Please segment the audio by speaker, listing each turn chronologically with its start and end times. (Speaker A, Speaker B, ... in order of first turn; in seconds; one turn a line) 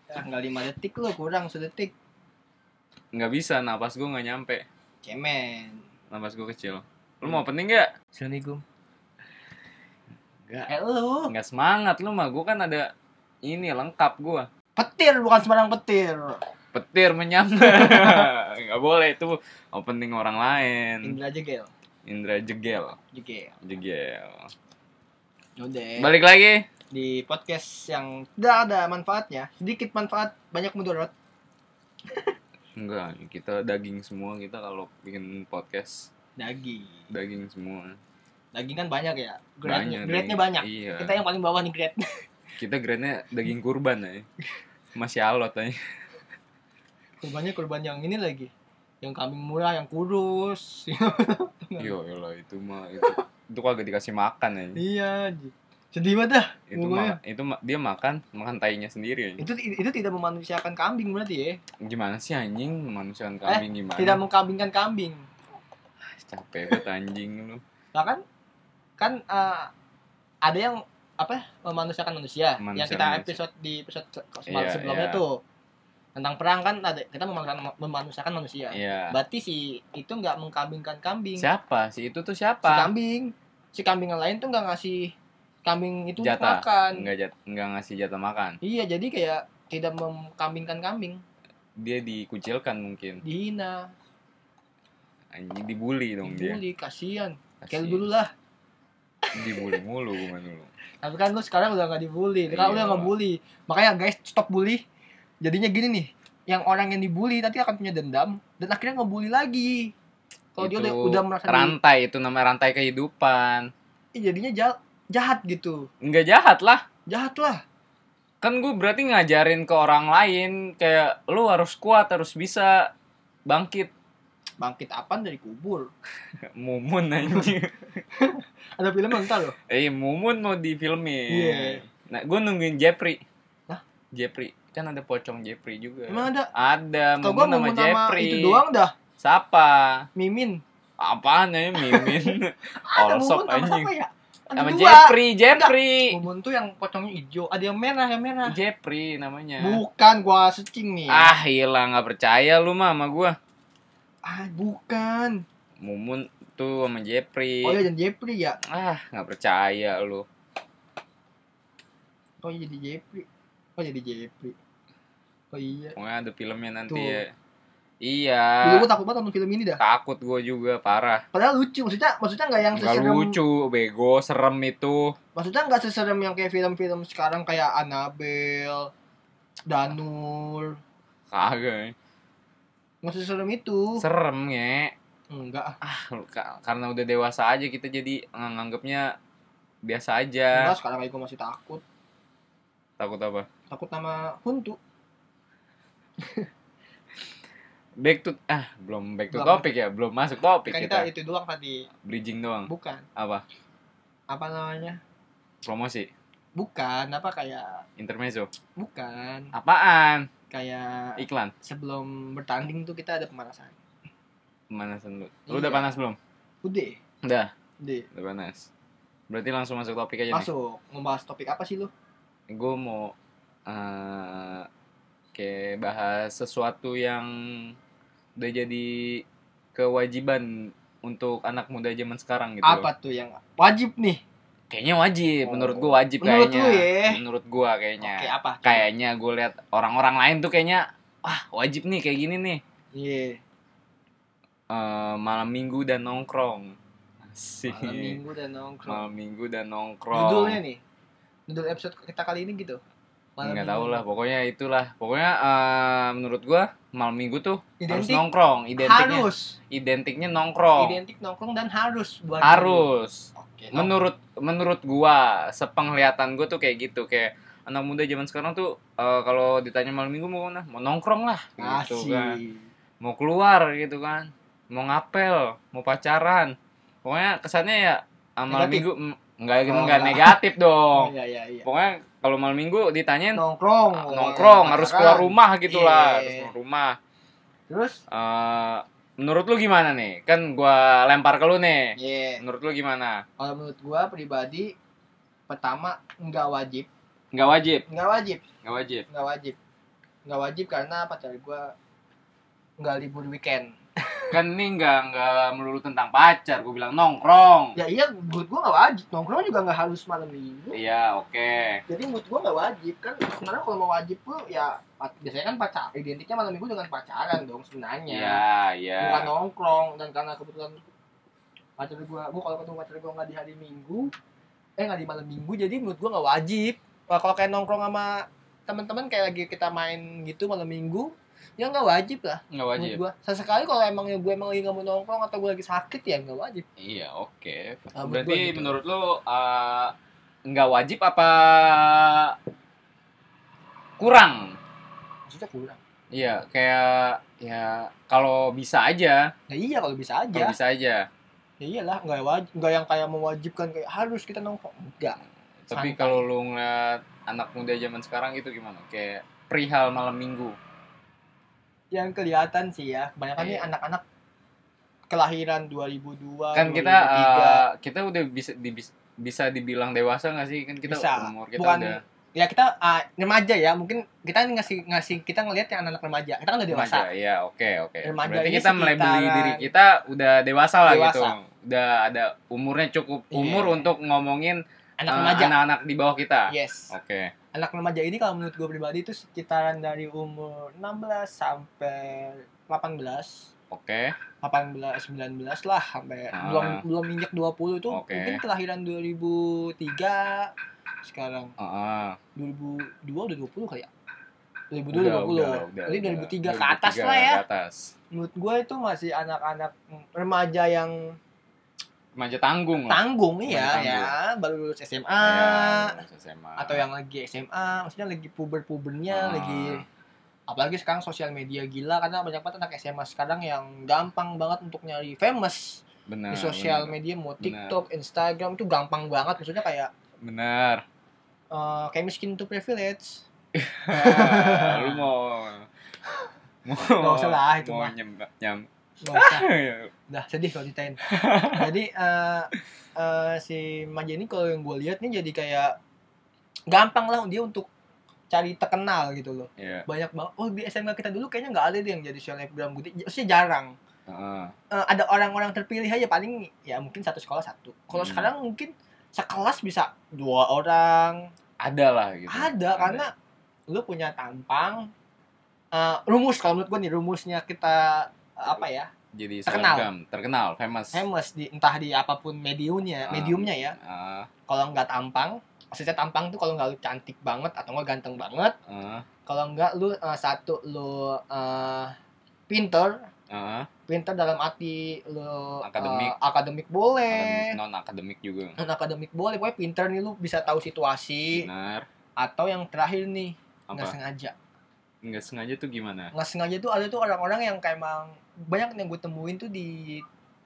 Speaker A: 0.1-1.9
Speaker B: 3.1-4.7
Speaker A: 5.0-5.8
Speaker B: 6.1-7.9
Speaker A: 8.2-8.6
Speaker A: 10.7-11.3
Speaker B: 11.3-12.9
Speaker B: 13.4-14.5
Speaker A: 14.8-16.4
Speaker B: 16.7-21.2
Speaker A: 21.0-21.7
Speaker B: 22.1-23.0
Speaker A: 23.1-23.6
Speaker B: 23.6-24.5
Speaker A: 25.6-26.1
Speaker B: 26.0-26.7
Speaker A: 26.9-31.1
Speaker B: 32.8-36.1
Speaker A: 36.4-37.1
Speaker B: 37.1-38.0
Speaker A: 38.5-42.0
Speaker B: 39.6-41.2
Speaker B: 42.6-44.3
Speaker B: 45.0-45.8
Speaker A: 47.2-48.5
Speaker A: 49.0-51.9
Speaker B: 51.8-54.8
Speaker A: 54.8-57.2
Speaker B: 56.7-59.4
Speaker A: 59.4-61.6
Speaker B: 61.8-64.2
Speaker A: 63.5-65.3
Speaker B: 66.1-67.6
Speaker A: 68.0-68.2
Speaker A: 69.0-69.7
Speaker A: 70.4-75.4
Speaker B: 72.6-73.4
Speaker B: 74.5-75.2
Speaker A: 76.2-81.5
Speaker B: 78.7-79.2
Speaker B: 81.4-82.9
Speaker A: 82.7-85.1
Speaker A: 85.7-87.1
Speaker B: 86.2-88.6
Speaker A: 88.6-91.2
Speaker B: 91.8-93.2
Speaker A: 93.2-93.9
Speaker B: 95.3-96.6
Speaker A: 96.2-98.3
Speaker B: 97.6-98.1
Speaker A: 99.3-99.8
Speaker B: 99.3-100.7
Speaker A: 101.0-104.8
Speaker B: 102.5-103.1
Speaker A: 105.4-109.9
Speaker A: 110.5-111.8
Speaker B: 110.6-113.7
Speaker A: 114.2-115.9
Speaker B: 116.0-116.8
Speaker A: 117.1-117.6
Speaker B: 118.4-122.9
Speaker B: 123.5-123.9
Speaker A: 124.6-125.9
Speaker B: 126.4-127.9
Speaker A: 128.1-129.6
Speaker B: 129.2-133.2
Speaker A: 131.3-131.8
Speaker B: 134.1-138.6
Speaker A: 136.1-136.5
Speaker A: 137.2-138.9
Speaker B: 139.2-140.1
Speaker A: 140.2-140.6
Speaker B: 141.0-143.9
Speaker A: 141.8-148.6
Speaker B: 144.6-146.2
Speaker B: 148.5-149.8
Speaker A: 149.6-151.4
Speaker B: 151.1-153.4
Speaker A: 154.2-155.4
Speaker B: 155.8-157.9
Speaker A: 157.6-158.6
Speaker B: 158.7-160.2
Speaker A: 162.4-163.3
Speaker A: 163.8-164.6
Speaker A: 165.5-165.9
Speaker B: 166.0-167.3
Speaker A: 166.9-167.2
Speaker B: 168.0-168.9
Speaker A: 168.6-169.8
Speaker B: 169.8-171.2
Speaker A: 171.3-173.4
Speaker B: 172.7-175.2
Speaker A: 175.3-178.9
Speaker A: 179.7-180.8
Speaker B: 181.3-181.9
Speaker A: 183.0-184.1
Speaker B: 184.0-184.9
Speaker A: 185.3-185.8
Speaker B: 185.8-189.2
Speaker B: 189.8-190.7
Speaker A: 190.5-191.8
Speaker B: 193.0-193.5
Speaker A: 193.7-194.8
Speaker A: 196.2-196.5
Speaker B: 198.0-201.1
Speaker A: 199.3-199.7
Speaker A: 200.7-201.9
Speaker B: 202.0-203.4
Speaker A: 202.7-203.1
Speaker A: 204.3-205.0
Speaker B: 205.6-206.1
Speaker A: 206.6-207.8
Speaker B: 208.0-208.5
Speaker A: 208.8-209.5
Speaker B: 209.5-210.3
Speaker A: 210.5-213.8
Speaker B: 211.2-211.5
Speaker B: 214.7-216.2
Speaker A: 215.5-215.9
Speaker A: 216.6-217.0
Speaker B: 217.2-217.5
Speaker A: 217.8-218.1
Speaker B: 218.1-218.7
Speaker B: 219.3-220.5
Speaker A: 220.3-221.9
Speaker B: 222.5-223.2
Speaker B: 223.7-224.7
Speaker B: 225.3-227.8
Speaker B: 228.4-229.2
Speaker B: 229.8-232.9
Speaker A: 232.6-234.2
Speaker B: 234.7-242.6
Speaker A: 235.4-237.2
Speaker A: 238.0-238.8
Speaker A: 242.9-243.4
Speaker B: 244.7-248.2
Speaker A: 247.7-249.0
Speaker B: 248.9-250.6
Speaker A: 250.1-250.8
Speaker A: 251.5-252.8
Speaker A: 253.4-254.0
Speaker B: 253.4-261.0
Speaker A: 257.8-258.2
Speaker A: 258.8-259.6
Speaker A: 260.8-264.0
Speaker B: 262.4-272.4
Speaker A: 271.6-272.7
Speaker B: 273.0-281.1
Speaker A: 278.5-278.9
Speaker A: 279.7-280.4
Speaker A: 280.9-281.7
Speaker B: 281.6-283.4
Speaker A: 283.4-286.5
Speaker B: 283.9-287.0
Speaker A: 287.7-288.0
Speaker B: 288.1-293.2
Speaker A: 292.0-292.4
Speaker A: 293.4-294.7
Speaker A: 295.5-296.9
Speaker B: 297.3-297.9
Speaker A: 297.9-298.4
Speaker B: 298.6-299.1
Speaker A: 299.1-299.6
Speaker A: 300.3-301.7
Speaker A: 302.8-304.4
Speaker B: 304.3-307.8
Speaker A: 307.8-310.8
Speaker B: 310.7-311.8
Speaker A: 311.9-318.4
Speaker B: 318.1-319.3
Speaker A: 319.0-320.8
Speaker A: 321.8-324.1
Speaker A: 324.8-336.6
Speaker B: 332.5-333.0
Speaker B: 336.8-339.9
Speaker A: 337.9-338.8
Speaker B: 340.5-342.4
Speaker B: 344.0-344.6
Speaker A: 345.3-345.8
Speaker B: 346.1-349.3
Speaker A: 349.5-350.6
Speaker B: 350.3-351.1
Speaker A: 351.6-355.2
Speaker B: 355.6-360.6
Speaker A: 355.7-356.2
Speaker A: 361.9-364.0
Speaker B: 363.4-363.7
Speaker A: 365.1-367.7
Speaker B: 366.6-372.0
Speaker A: 370.9-377.1
Speaker B: 376.7-387.3
Speaker A: 378.0-379.7
Speaker A: 380.9-381.4
Speaker A: 383.3-383.9
Speaker A: 385.0-385.6
Speaker A: 386.5-386.9
Speaker A: 387.5-393.5
Speaker B: 393.7-394.2
Speaker A: 394.4-400.5
Speaker B: 396.3-396.8
Speaker B: 397.9-398.4
Speaker A: 401.1-401.5
Speaker B: 401.6-402.2
Speaker A: 402.4-403.9
Speaker A: 404.7-407.4
Speaker B: 404.9-407.9
Speaker A: 408.1-411.1
Speaker B: 412.1-414.1
Speaker A: 412.9-416.0
Speaker B: 415.2-416.9
Speaker A: 416.6-419.8
Speaker B: 419.1-419.8
Speaker A: 420.5-429.9
Speaker B: 426.1-427.8
Speaker B: 430.2-430.8
Speaker A: 431.5-433.3
Speaker B: 433.5-435.7
Speaker A: 433.9-435.1
Speaker B: 436.7-439.9
Speaker A: 437.0-437.9
Speaker A: 439.0-439.5
Speaker A: 440.1-445.8
Speaker B: 441.0-441.7
Speaker A: 446.7-447.7
Speaker A: 448.3-453.8
Speaker B: 449.6-449.9
Speaker B: 454.1-454.5
Speaker A: 454.7-461.3
Speaker B: 457.9-458.3
Speaker B: 461.6-463.1
Speaker A: 462.3-463.1
Speaker A: 463.7-464.9
Speaker A: 465.7-468.9
Speaker B: 469.1-471.1
Speaker A: 469.5-469.9
Speaker A: 470.9-473.8
Speaker B: 473.1-474.3
Speaker A: 474.5-478.6
Speaker B: 478.7-479.1
Speaker A: 479.3-481.9
Speaker A: 482.5-483.1
Speaker B: 483.3-483.7
Speaker A: 483.9-487.6
Speaker B: 485.6-486.1
Speaker B: 487.1-488.6
Speaker A: 488.6-491.5
Speaker B: 491.4-491.9
Speaker A: 492.2-494.3
Speaker B: 493.7-493.9
Speaker B: 495.0-496.1
Speaker A: 496.1-500.1